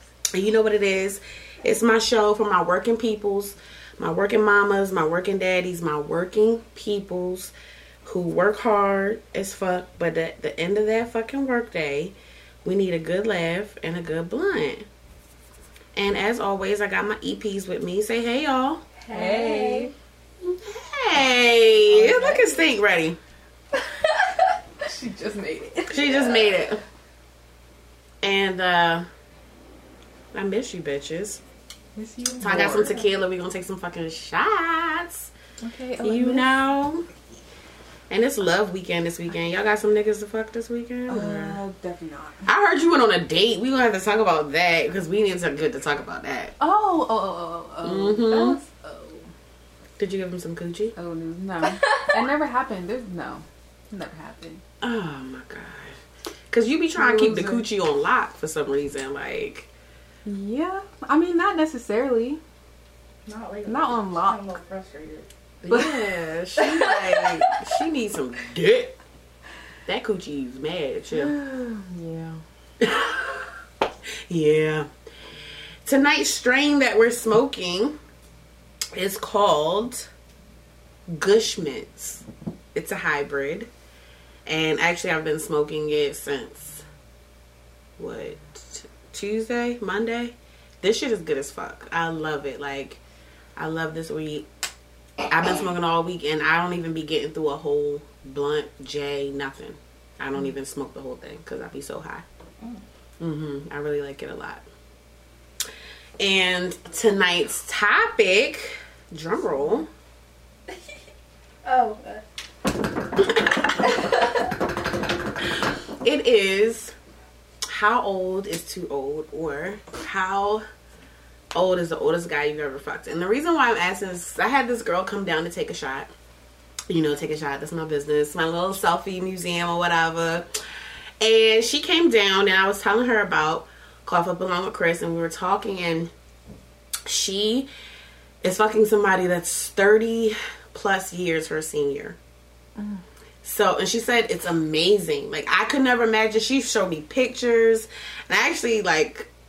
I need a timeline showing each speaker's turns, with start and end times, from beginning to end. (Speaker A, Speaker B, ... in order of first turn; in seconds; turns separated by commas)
Speaker A: 0.3-7.5, Speaker A: 8.0-14.9, Speaker A: 15.9-18.8, Speaker B: 19.0-19.9, Speaker C: 19.1-19.9, Speaker A: 20.4-23.2, Speaker B: 21.9-22.7, Speaker C: 24.8-26.6, Speaker A: 25.9-26.8, Speaker A: 28.2-29.1, Speaker A: 30.3-31.4, Speaker C: 32.0-33.1, Speaker A: 32.4-35.3, Speaker C: 35.6-36.5, Speaker A: 36.0-37.1, Speaker A: 38.1-41.6, Speaker C: 41.1-42.5, Speaker A: 42.5-46.5, Speaker C: 46.6-49.3, Speaker A: 47.8-48.6, Speaker A: 50.0-50.9, Speaker C: 51.0-54.6, Speaker B: 51.6-52.3, Speaker A: 54.8-56.0, Speaker A: 56.5-59.7, Speaker C: 57.0-57.7, Speaker C: 60.2-62.4, Speaker B: 63.3-65.3, Speaker C: 63.6-64.6, Speaker A: 65.6-69.0, Speaker C: 65.7-67.3, Speaker A: 69.9-71.4, Speaker C: 71.1-72.4, Speaker A: 72.8-73.2, Speaker A: 74.3-74.9, Speaker A: 75.8-78.0, Speaker A: 79.0-80.1, Speaker A: 81.1-83.7, Speaker A: 84.5-86.9, Speaker A: 88.0-93.0, Speaker A: 93.6-94.5, Speaker A: 95.3-102.2, Speaker A: 103.2-104.6, Speaker A: 106.2-109.9, Speaker B: 111.6-112.2, Speaker B: 113.8-114.5, Speaker A: 116.0-117.0, Speaker A: 117.7-120.6, Speaker A: 121.5-126.1, Speaker A: 126.9-130.5, Speaker A: 131.2-136.1, Speaker A: 137.1-137.7, Speaker A: 138.4-142.2, Speaker C: 142.8-143.0, Speaker A: 143.4-149.3